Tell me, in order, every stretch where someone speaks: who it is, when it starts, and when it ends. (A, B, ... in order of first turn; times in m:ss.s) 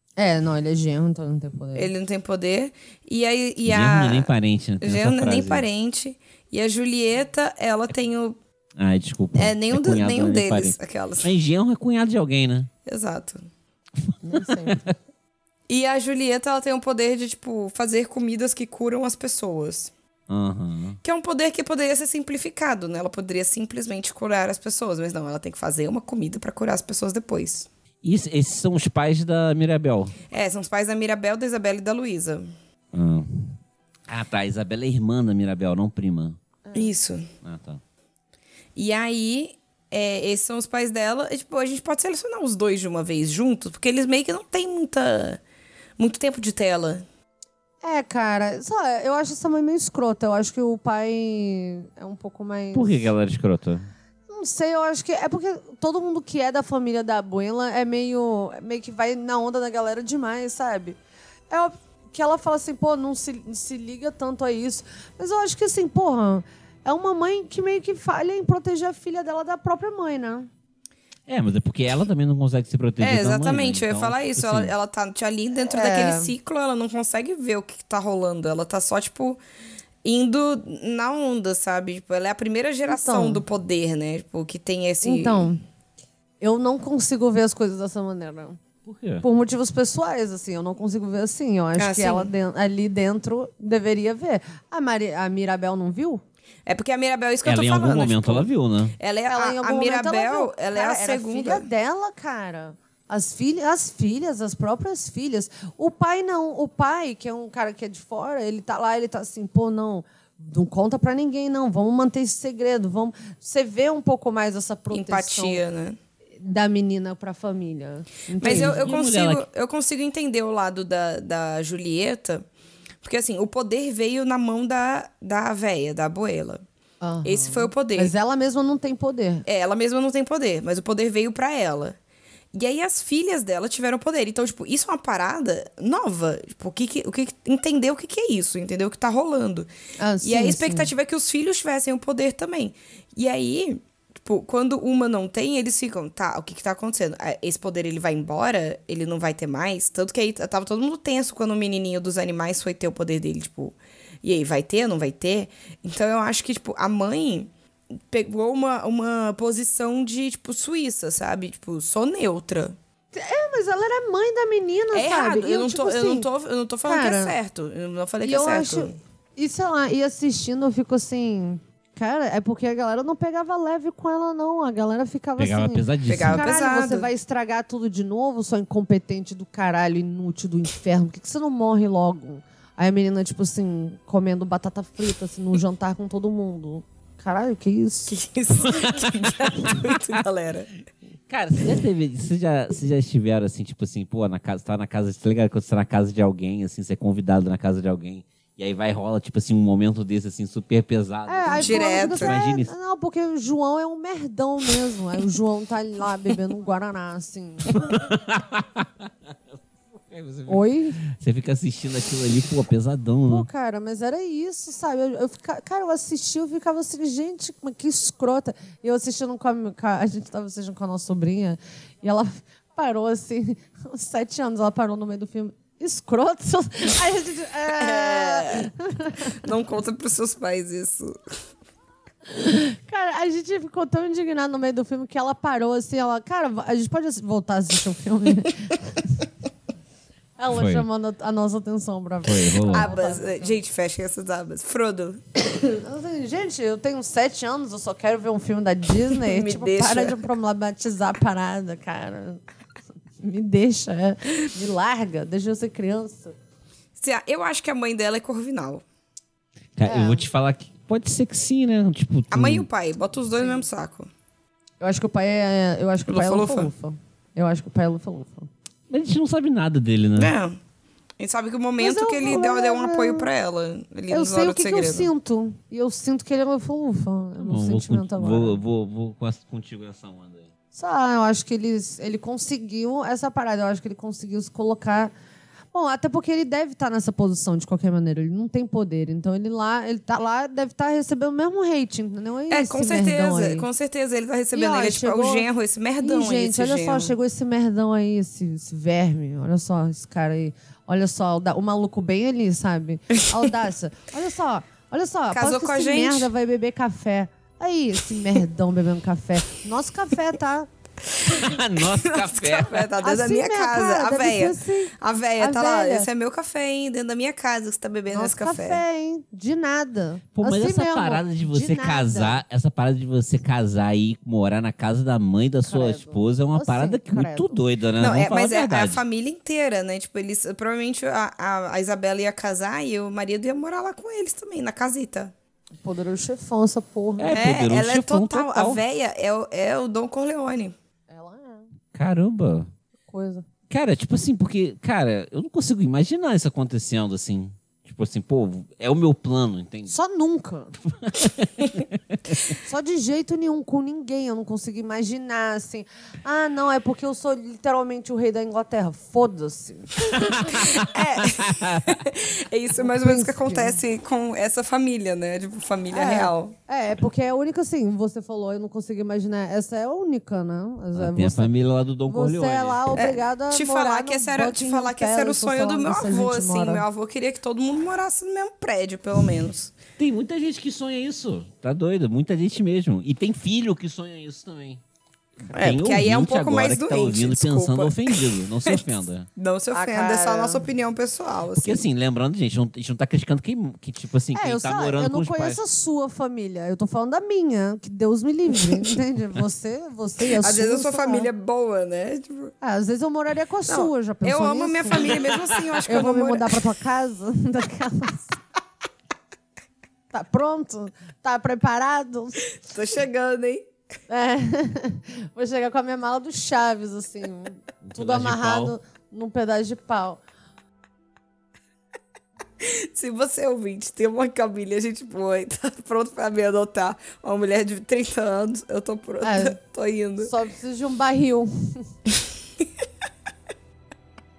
0:00.2-0:01.9 A
0:01.8-0:08.4 B
0:03.6-0:05.7 C
0:08.8-0:12.7 C
0:09.4-0:11.3 B
0:12.9-0:13.5 B
0:14.0-0:14.9 C
0:14.2-0:15.0 A
0:15.7-0:19.9 B
0:20.3-0:21.0 C
0:21.0-0:27.7 B
0:28.0-0:30.2 C
0:30.3-0:32.5 B
0:32.9-0:33.6 C
0:34.1-0:36.4 C
0:36.7-0:36.9 A
0:36.7-0:37.3 B
0:37.4-0:37.8 C
0:38.8-0:45.4 B
0:46.0-0:47.0 B
0:47.8-0:53.1 A
0:52.7-0:53.9 C
0:54.3-1:01.0 A
1:01.5-1:10.5 A
1:11.3-1:14.7 C
1:13.0-1:19.4 B
1:15.6-1:16.3 A
1:20.0-1:25.5 B
1:22.9-1:23.4 A
1:25.0-1:25.6 A
1:26.4-1:28.6 A
1:28.8-1:29.2 C
1:29.2-1:36.2 A
1:31.8-1:32.3 B
1:36.7-1:41.7 B
1:37.4-1:39.0 C
1:39.3-1:55.6 A
1:54.9-1:56.0 B
1:56.4-1:58.9 A
1:58.4-2:02.5 B
1:58.4-1:59.4 C
2:03.0-2:06.6 B
2:07.0-2:09.4 A
2:07.2-2:08.1 B
2:09.5-2:12.0 B
2:12.5-2:19.7 B
2:20.0-2:20.9 A
2:20.2-2:42.8 B
2:43.1-2:46.3 A
2:44.9-2:49.0 B
2:46.8-2:47.4 A
2:48.2-3:08.2 A
2:55.4-2:56.5 C
2:56.1-2:57.1 B
3:08.1-3:10.7 B
3:08.7-3:10.0 C
3:11.3-3:22.7 C
3:21.3-3:27.9 A
3:21.6-3:22.4 B
3:27.7-3:29.3 C
3:29.9-3:33.5 C
3:30.5-3:31.0 A
3:33.3-3:49.4 A
3:47.7-3:48.7 B
3:49.3-3:51.2 B
3:52.3-3:59.2 A
4:00.4-4:03.6 A
4:00.5-4:00.9 C
4:02.2-4:02.9 C
4:02.7-4:05.2 B
4:05.6-4:12.4 A
4:09.1-4:10.3 B
4:13.2-4:16.4 A
4:17.0-4:18.8 B
4:19.8-4:22.7 C
4:19.8-4:20.2 A
4:22.3-4:24.1 B
4:23.4-4:23.6 A
4:24.8-4:28.5 A
4:26.1-4:26.7 B
4:28.9-4:30.3 C
4:30.2-4:30.6 B
4:31.2-4:35.1 B
4:31.8-4:33.3 A
4:34.1-4:38.6 A
4:37.4-4:40.5 C
4:40.8-4:45.1 A
4:45.7-4:53.7 A
4:52.5-4:57.2 B
4:54.5-4:55.5 A
4:56.0-5:10.7 A
5:05.3-5:06.3 B
5:11.3-5:12.9 C
5:12.0-5:18.8 B
5:13.0-5:16.1 A
5:18.1-5:22.4 A
5:20.4-5:29.0 C
5:25.7-5:27.6 A
5:28.0-5:35.3 B
5:35.8-5:37.4 A
5:37.2-5:38.8 C
5:37.3-5:40.7 B
5:41.1-5:41.7 A
5:41.9-5:42.7 C
5:43.1-5:43.4 A
5:43.7-5:49.9 C
5:49.9-5:50.8 A
5:50.8-5:52.4 C
5:52.6-6:00.8 A
6:00.2-6:02.0 C
6:00.8-6:06.5 B
6:02.8-6:03.8 A
6:05.9-6:11.5 A
6:11.0-6:13.0 C
6:12.1-6:16.8 A
6:12.9-6:19.7 B
6:20.0-6:24.8 C
6:25.4-6:29.3 C
6:25.5-6:31.8 B
6:29.7-6:30.6 A
6:31.5-6:35.6 C
6:34.3-6:41.3 A
6:40.4-6:42.5 B
6:42.6-6:45.2 A
6:43.7-6:46.6 B
6:45.9-6:48.4 A
6:50.1-6:52.5 A
6:52.6-6:53.7 B
6:54.1-7:00.2 A
6:57.8-6:58.8 C
7:02.6-7:10.3 B
7:09.2-7:09.6 A
7:10.2-7:11.9 A